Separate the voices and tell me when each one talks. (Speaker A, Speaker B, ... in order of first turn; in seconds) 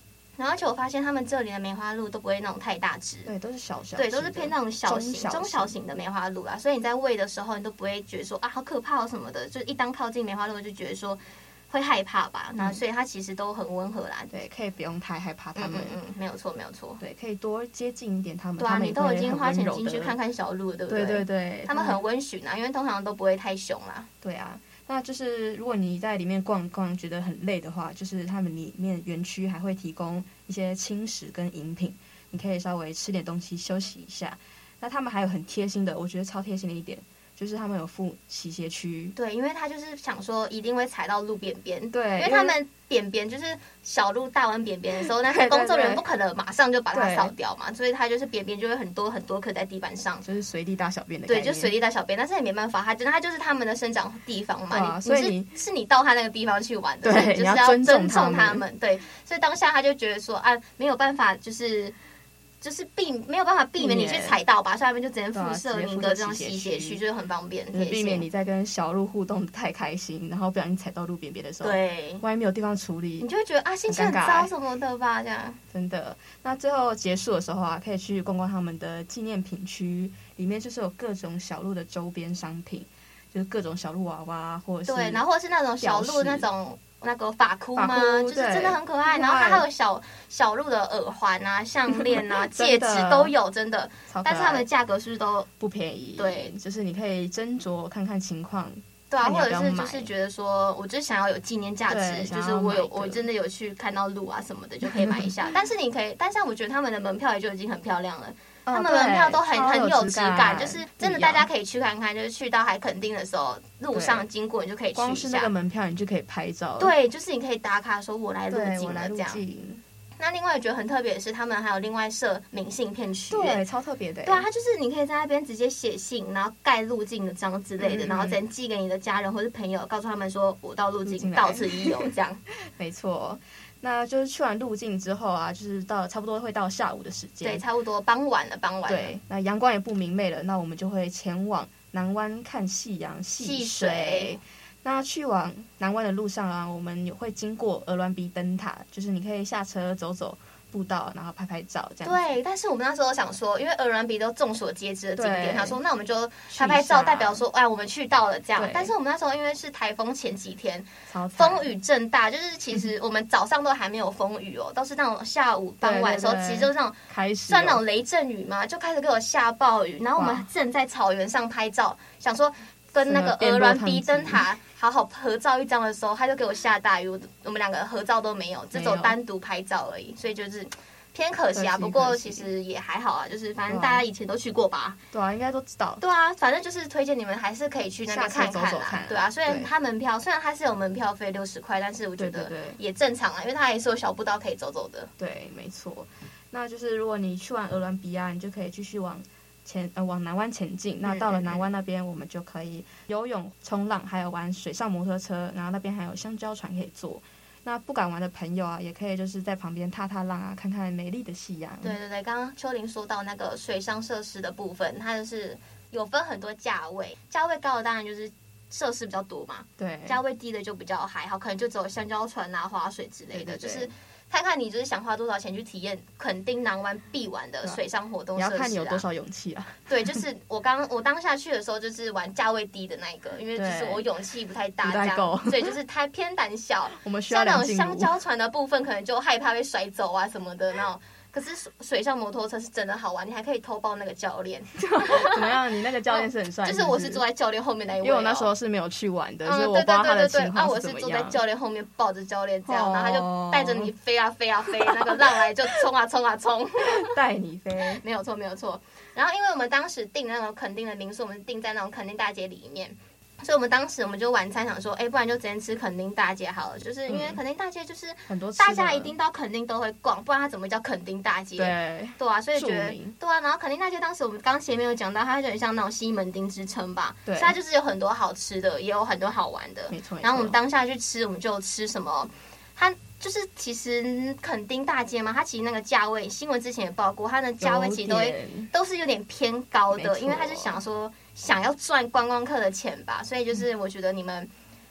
Speaker A: 0.4-3.3, 4.0-14.3, 15.6-17.0, 18.6-24.1, 39.1-50.2, 51.3-62.0, 62.6-68.2, 71.6-72.2, 73.2-75.6, 84.9-95.5, 96.2-96.5, 99.1-115.5, 116.8-119.4, 120.2-123.6, 124.2-132.4, 137.4-139.2, 143.4-144.4, 152.0-185.0, 186.0-195.1, 201.0-201.6, 211.8-229.1, 229.9-245.6, 246.1-248.5, 249.4-257.1, 258.0-294.5
Speaker B: 3.3-5.8, 14.3-16.0, 17.0-20.2, 20.9-22.0, 24.2-39.1, 41.9-42.6, 45.0-46.0, 46.9-47.3, 50.2-51.7, 54.7-55.6, 57.0-58.6, 63.8-64.4, 65.3-67.0, 67.7-73.3, 73.9-74.5, 75.7-85.2, 85.8-86.5, 87.8-89.7, 91.9-93.3, 94.1-94.7, 95.6-100.1, 101.9-103.2, 105.0-105.3, 108.7-111.5, 113.9-114.3, 115.0-116.9, 118.5-119.8, 123.3-124.5, 127.8-128.4, 131.1-137.6, 138.9-152.2, 155.2-155.8, 156.5-157.4, 158.6-158.9, 161.1-161.7, 165.8-167.8, 170.2-170.5, 173.0-174.4, 178.7-179.2, 181.5-182.5, 183.7-184.0, 185.1-186.0, 188.1-189.7, 192.2-192.8, 195.2-212.0, 219.8-220.2, 223.3-223.9, 228.4-230.2, 233.5-234.1, 234.8-235.8, 237.0-238.1, 244.8-247.2, 248.0-251.4, 252.7-253.9, 254.8-255.2, 256.9-258.0, 267.1-267.4, 268.3-269.1, 271.6-273.1, 277.3-277.6, 279.9-280.6, 287.6-288.7, 289.9-290.8